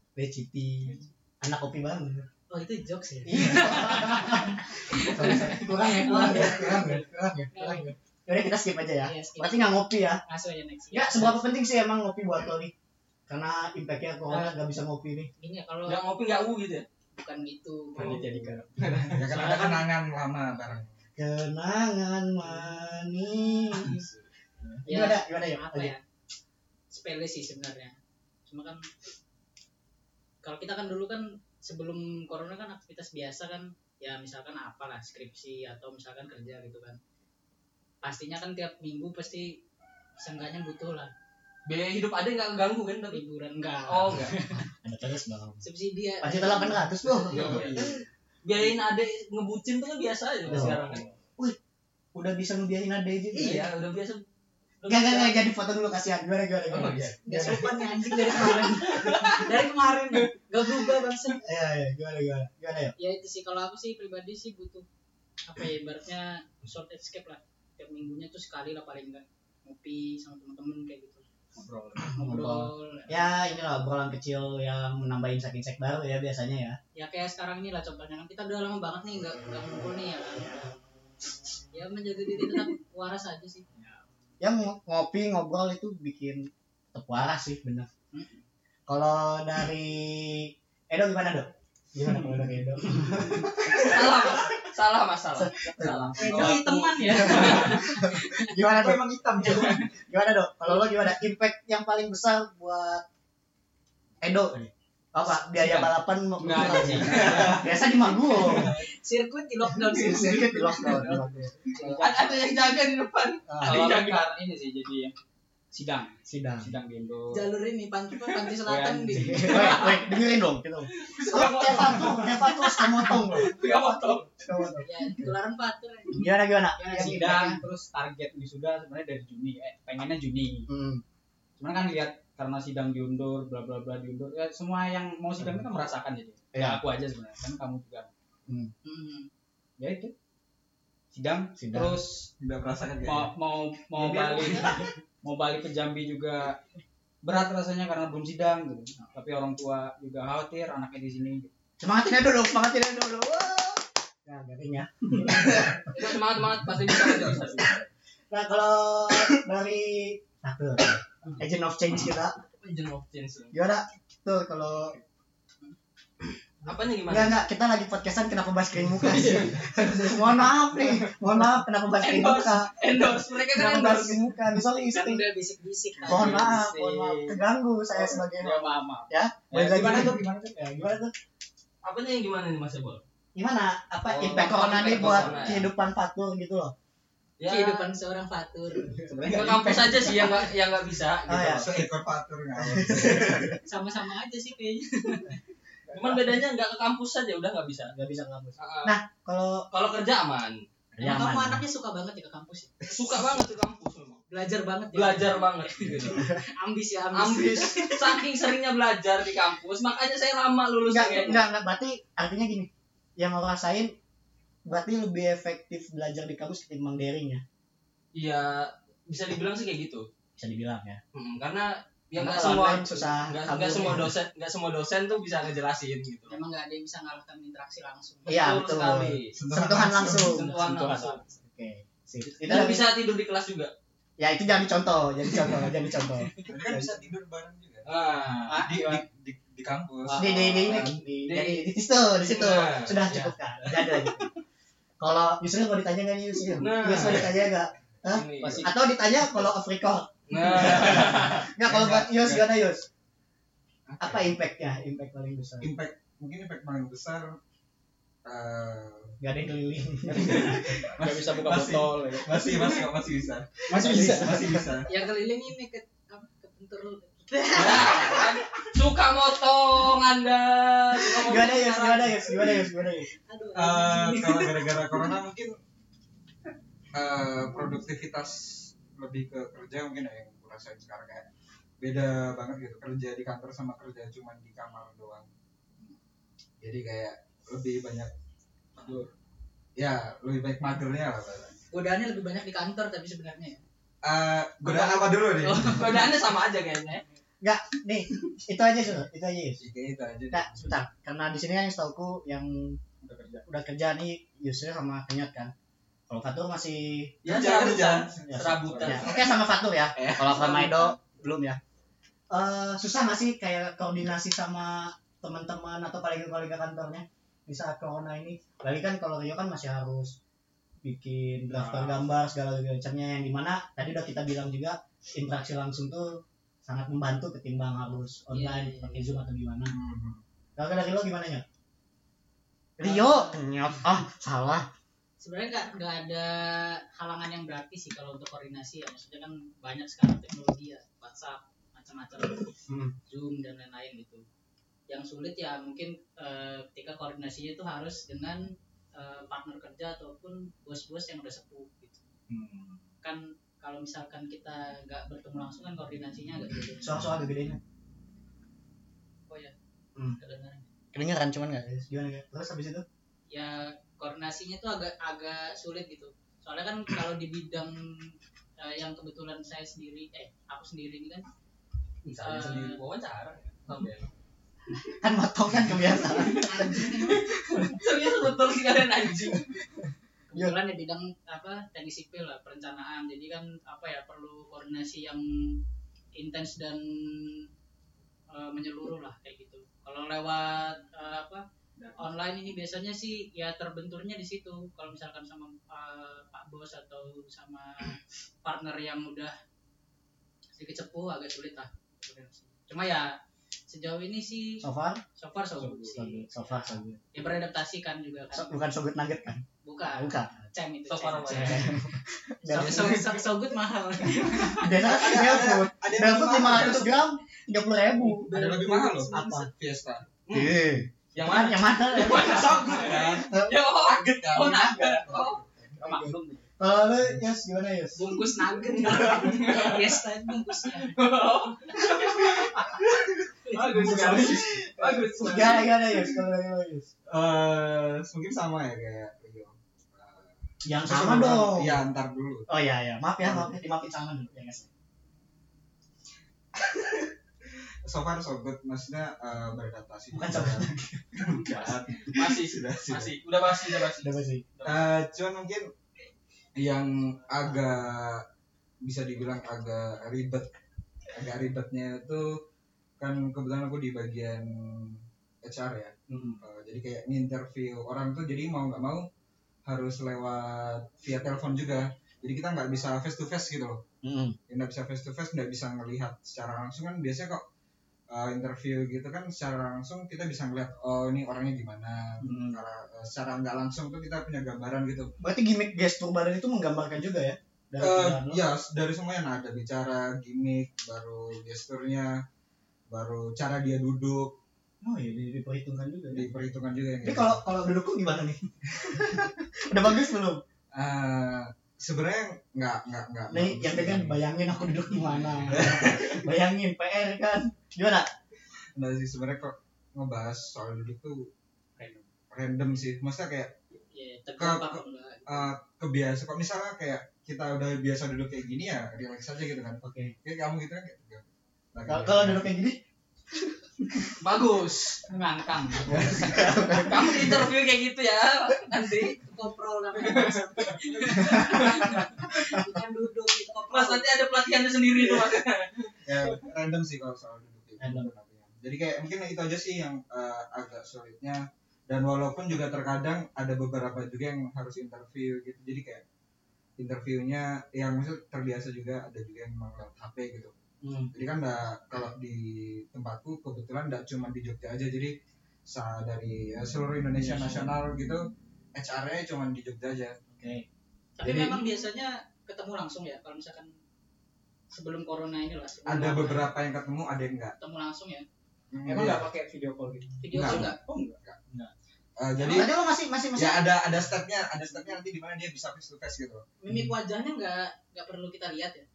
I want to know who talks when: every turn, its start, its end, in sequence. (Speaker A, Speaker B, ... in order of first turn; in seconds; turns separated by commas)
Speaker A: 0.1-2.3, Speaker B: 2.5-7.9, Speaker A: 3.2-10.2, Speaker B: 9.0-11.4, Speaker A: 10.9-12.7, Speaker A: 13.3-15.3, Speaker B: 14.3-14.6, Speaker B: 15.4-16.1, Speaker C: 15.8-16.9, Speaker B: 17.1-18.5, Speaker D: 17.9-19.3, Speaker C: 18.8-19.1, Speaker E: 19.1-21.0, Speaker B: 19.3-19.9, Speaker A: 21.2-24.0, Speaker A: 24.8-25.9, Speaker B: 24.9-26.0, Speaker B: 26.9-28.9, Speaker B: 30.4-37.0, Speaker B: 38.0-39.6, Speaker B: 40.2-41.1, Speaker C: 41.6-43.2, Speaker B: 43.1-44.6, Speaker C: 43.9-44.3, Speaker A: 44.5-45.6, Speaker B: 45.6-46.9, Speaker A: 46.2-47.8, Speaker C: 47.2-51.0, Speaker E: 47.3-47.9, Speaker D: 47.3-47.9, Speaker D: 50.5-51.1, Speaker A: 50.5-50.8, Speaker A: 52.1-53.7, Speaker C: 53.3-54.2, Speaker C: 54.8-55.4, Speaker A: 54.9-58.6, Speaker C: 56.7-57.6, Speaker B: 57.2-61.4, Speaker C: 58.2-59.5, Speaker A: 61.4-62.9, Speaker B: 63.0-64.8, Speaker B: 65.4-71.2, Speaker D: 71.5-72.2, Speaker B: 72.1-73.3, Speaker A: 72.2-76.8, Speaker B: 77.0-80.7, Speaker B: 81.7-83.6, Speaker A: 84.4-87.9, Speaker B: 88.1-88.4, Speaker A: 88.9-94.4, Speaker C: 93.7-97.8, Speaker A: 95.3-103.0, Speaker D: 95.8-96.5, Speaker B: 96.2-98.4, Speaker E: 99.1-99.5, Speaker A: 104.2-108.7, Speaker D: 105.5-107.7, Speaker C: 107.0-107.6, Speaker C: 108.4-108.7, Speaker B: 108.5-111.2, Speaker A: 109.7-111.7, Speaker D: 111.7-112.4, Speaker C: 111.8-114.2, Speaker A: 113.5-113.8, Speaker D: 113.6-115.1, Speaker D: 115.7-117.5, Speaker A: 116.2-116.7, Speaker B: 117.3-119.8, Speaker D: 118.6-119.9, Speaker A: 119.3-125.3, Speaker C: 119.5-120.0, Speaker C: 120.9-124.3, Speaker B: 124.8-127.2, Speaker A: 126.1-127.6, Speaker D: 126.9-130.7, Speaker A: 130.7-131.0, Speaker D: 131.6-138.1, Speaker A: 136.5-136.8, Speaker A: 138.5-138.7, Speaker B: 138.8-139.3, Speaker D: 139.8-140.1, Speaker D: 141.1-142.3, Speaker A: 141.6-142.0, Speaker E: 142.4-143.3, Speaker D: 143.0-146.6, Speaker C: 144.0-144.8, Speaker D: 147.2-151.5, Speaker A: 151.8-156.1, Speaker C: 155.8-157.7, Speaker A: 156.9-162.3, Speaker C: 162.6-163.6, Speaker A: 163.5-165.0, Speaker C: 166.6-167.4, Speaker A: 167.1-175.2, Speaker D: 168.9-171.2, Speaker C: 172.0-174.2, Speaker B: 174.9-176.6, Speaker D: 176.0-177.4, Speaker A: 176.1-181.1, Speaker D: 177.9-180.4, Speaker C: 181.8-183.0, Speaker A: 183.3-186.7, Speaker C: 184.1-185.7, Speaker B: 184.7-185.2, Speaker C: 187.4-187.9, Speaker B: 187.4-189.0, Speaker A: 189.0-190.4, Speaker D: 189.1-189.8, Speaker C: 189.2-191.9, Speaker A: 191.2-191.7, Speaker E: 191.6-193.6, Speaker A: 192.6-193.6, Speaker B: 193.7-195.4, Speaker A: 195.9-196.3, Speaker C: 195.9-197.9, Speaker A: 197.9-199.7, Speaker C: 198.6-199.0, Speaker C: 199.7-200.6, Speaker A: 200.9-201.6, Speaker B: 201.0-202.7, Speaker C: 202.8-204.2, Speaker B: 204.3-208.3, Speaker C: 204.9-206.3, Speaker A: 206.0-206.4, Speaker C: 207.1-211.4, Speaker A: 210.9-213.9, Speaker A: 214.6-217.4, Speaker C: 218.1-220.0, Speaker A: 220.4-221.0, Speaker C: 221.1-226.4, Speaker A: 222.2-224.1, Speaker B: 226.3-228.5, Speaker A: 228.2-230.5, Speaker C: 228.3-229.3, Speaker E: 229.3-230.4, Speaker C: 230.0-231.2, Speaker D: 230.4-231.3, Speaker A: 231.4-232.9, Speaker C: 232.2-233.7, Speaker A: 234.2-237.0, Speaker E: 236.4-237.9, Speaker C: 237.8-238.7, Speaker D: 238.5-239.0, Speaker E: 238.6-240.9, Speaker C: 240.0-241.6, Speaker A: 240.1-244.3, Speaker C: 242.2-244.2, Speaker A: 245.0-252.9, Speaker C: 246.5-247.4, Speaker C: 248.1-248.7, Speaker D: 248.4-248.7, Speaker C: 250.3-252.0, Speaker E: 251.8-252.3, Speaker E: 253.9-254.3, Speaker A: 254.0-255.7, Speaker E: 255.6-257.4, Speaker E: 258.2-259.1, Speaker A: 259.2-260.6, Speaker D: 260.1-262.4, Speaker C: 260.2-260.6, Speaker E: 260.3-264.9, Speaker D: 263.7-264.5, Speaker A: 263.7-264.8, Speaker B: 264.9-268.2, Speaker C: 267.5-272.5, Speaker A: 267.9-268.2, Speaker A: 271.0-273.1, Speaker B: 273.2-275.1, Speaker E: 273.5-275.6, Speaker E: 276.9-281.3, Speaker E: 281.8-285.3, Speaker E: 286.6-288.1, Speaker E: 288.8-289.1, Speaker E: 289.8-291.6, Speaker B: 291.7-293.6, Speaker E: 294.0-296.1, Speaker B: 295.1-296.1, Speaker C: 295.5-297.0, Speaker A: 297.4-299.6, Speaker E: 299.6-300.6, Speaker A: 300.3-302.8, Speaker E: 303.0-303.4, Speaker A: 303.4-305.5, Speaker A: 306.1-307.1, Speaker C: 307.2-309.4, Speaker E: 307.2-309.2, Speaker A: 308.3-311.6, Speaker E: 310.0-310.4, Speaker C: 310.0-310.9, Speaker A: 312.3-320.2, Speaker A: 320.8-329.7, Speaker D: 321.6-321.9, Speaker B: 328.3-329.2, Speaker E: 329.7-330.2, Speaker A: 330.6-331.4, Speaker A: 332.8-334.7, Speaker B: 332.8-333.4, Speaker B: 335.2-342.4, Speaker A: 342.7-342.9, Speaker B: 343.1-344.2, Speaker B: 344.9-352.0, Speaker B: 353.0-356.9, Speaker A: 356.8-357.6, Speaker B: 359.3-359.5, Speaker B: 360.2-360.6, Speaker A: 360.9-362.8, Speaker B: 363.3-371.3, Speaker C: 372.0-374.1, Speaker B: 372.2-372.8, Speaker A: 374.8-377.6, Speaker B: 376.1-377.2, Speaker C: 377.1-379.4, Speaker B: 380.3-385.2, Speaker B: 386.1-387.5, Speaker B: 388.3-391.4, Speaker B: 392.0-399.3, Speaker B: 400.6-403.1, Speaker B: 403.7-404.6, Speaker A: 404.6-405.0, Speaker B: 405.1-406.3, Speaker A: 405.9-407.0, Speaker B: 407.1-408.6, Speaker A: 408.3-410.4, Speaker B: 409.6-411.7, Speaker C: 410.9-411.7, Speaker A: 411.3-413.1, Speaker B: 412.4-414.7, Speaker C: 412.6-413.2, Speaker A: 414.2-418.3, Speaker E: 414.8-417.0, Speaker B: 418.2-419.5, Speaker E: 418.3-420.1, Speaker A: 419.1-419.5, Speaker C: 420.2-420.5, Speaker A: 420.3-423.6, Speaker C: 421.1-425.4, Speaker E: 422.2-423.3, Speaker E: 423.8-425.7, Speaker A: 424.4-425.0, Speaker D: 425.8-426.4, Speaker A: 425.8-428.1, Speaker B: 427.9-430.9, Speaker C: 428.7-429.8, Speaker C: 430.8-432.8, Speaker C: 433.5-436.0, Speaker A: 433.7-436.9, Speaker E: 437.1-442.5, Speaker A: 440.6-441.8, Speaker A: 442.5-444.7, Speaker E: 443.2-443.5, Speaker E: 446.5-453.1, Speaker A: 450.1-451.7, Speaker C: 451.6-454.9, Speaker A: 454.0-454.4, Speaker E: 454.6-455.7, Speaker E: 456.6-458.2, Speaker E: 458.8-460.5, Speaker E: 461.1-462.4, Speaker E: 463.0-469.1, Speaker A: 466.1-466.4, Speaker E: 469.6-473.8, Speaker A: 474.0-474.4, Speaker E: 474.5-477.4, Speaker E: 478.1-485.1, Speaker A: 482.2-482.6, Speaker A: 485.2-488.4, Speaker E: 487.8-492.2, Speaker E: 492.9-494.4, Speaker A: 494.8-496.3, Speaker E: 496.1-497.4, Speaker A: 497.0-500.4, Speaker E: 500.7-504.2, Speaker A: 503.3-508.1, Speaker E: 504.9-506.2, Speaker E: 508.8-511.3, Speaker D: 511.8-512.0, Speaker E: 512.3-513.5, Speaker B: 513.9-515.5, Speaker E: 514.4-522.5, Speaker A: 519.8-520.1, Speaker A: 521.8-522.8, Speaker A: 523.3-524.1, Speaker C: 524.2-525.0, Speaker D: 525.1-526.0, Speaker A: 525.8-527.5, Speaker E: 526.0-526.7, Speaker C: 526.8-529.1, Speaker B: 529.1-534.0, Speaker C: 530.0-532.1, Speaker C: 533.7-535.9, Speaker E: 536.0-546.0, Speaker A: 537.8-538.0, Speaker E: 546.8-550.5, Speaker A: 550.8-551.1, Speaker E: 551.1-560.1, Speaker A: 557.2-557.7, Speaker A: 560.3-560.6, Speaker B: 561.2-563.7, Speaker A: 561.2-561.6, Speaker B: 564.7-566.5, Speaker E: 565.8-567.5, Speaker B: 567.6-568.2, Speaker E: 568.7-569.3, Speaker D: 568.8-571.7, Speaker B: 570.2-570.8, Speaker E: 570.3-571.4, Speaker E: 572.2-572.7, Speaker A: 572.4-573.8, Speaker E: 573.3-576.4, Speaker B: 576.6-578.8